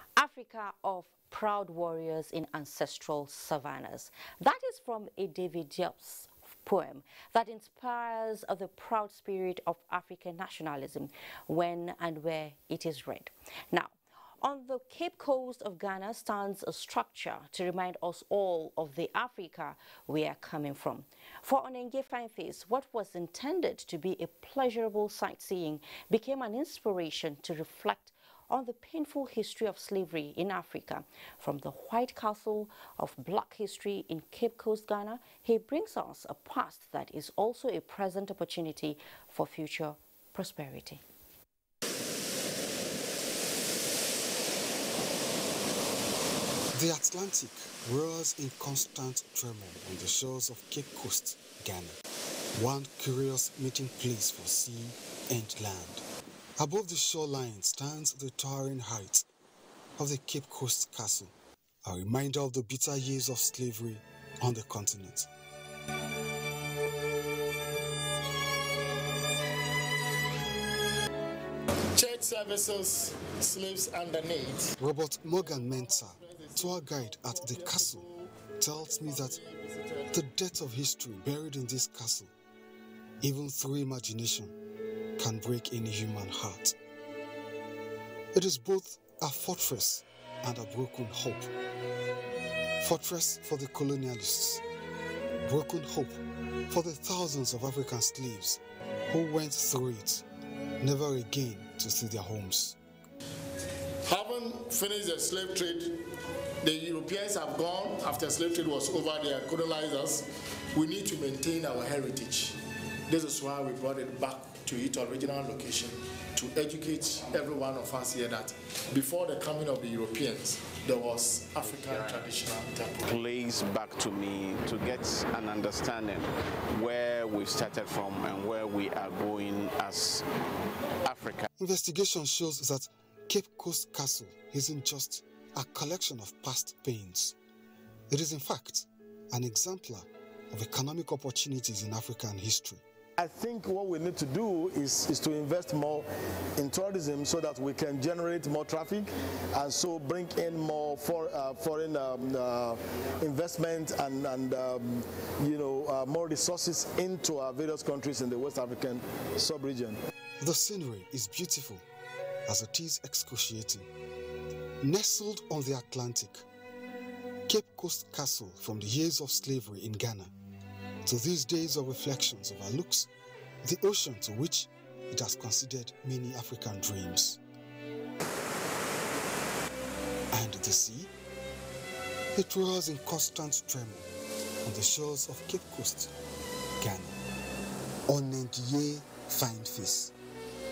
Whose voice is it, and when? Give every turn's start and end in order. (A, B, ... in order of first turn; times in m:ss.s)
0:00.2-0:41.0 A
0:46.7-0:52.0 B
0:52.5-0:56.0 B
0:56.6-0:59.2 B
1:00.0-1:01.3 B
1:01.8-1:05.3 B
1:11.9-1:14.7 C
1:14.8-1:18.0 B
1:15.4-1:18.3 C
1:18.6-1:19.4 B
1:18.9-1:20.1 C
1:20.1-1:22.3 B
1:23.2-1:24.5 B
1:25.2-1:26.8 B
1:28.3-1:31.5 B
1:32.8-1:34.6 B
1:35.4-1:40.2 B
1:40.8-1:42.8 B
1:44.0-1:46.0 C
1:46.6-1:52.6 C
1:53.1-2:03.2 C
2:01.7-2:02.2 D
2:03.0-2:10.2 D
2:11.0-2:11.4 D
2:11.6-2:17.4 B
2:18.1-2:22.8 B
2:23.2-2:40.0 E
2:40.4-2:41.8 B
2:42.5-2:43.9 B
2:44.8-2:46.4 B
2:47.5-2:50.3 B
2:51.0-2:53.1 B
2:53.6-2:57.4 B
3:00.3-3:01.1 B
3:02.3-3:04.1 B
3:04.6-3:06.1 B
3:06.8-3:07.2 B
3:08.1-3:10.1 B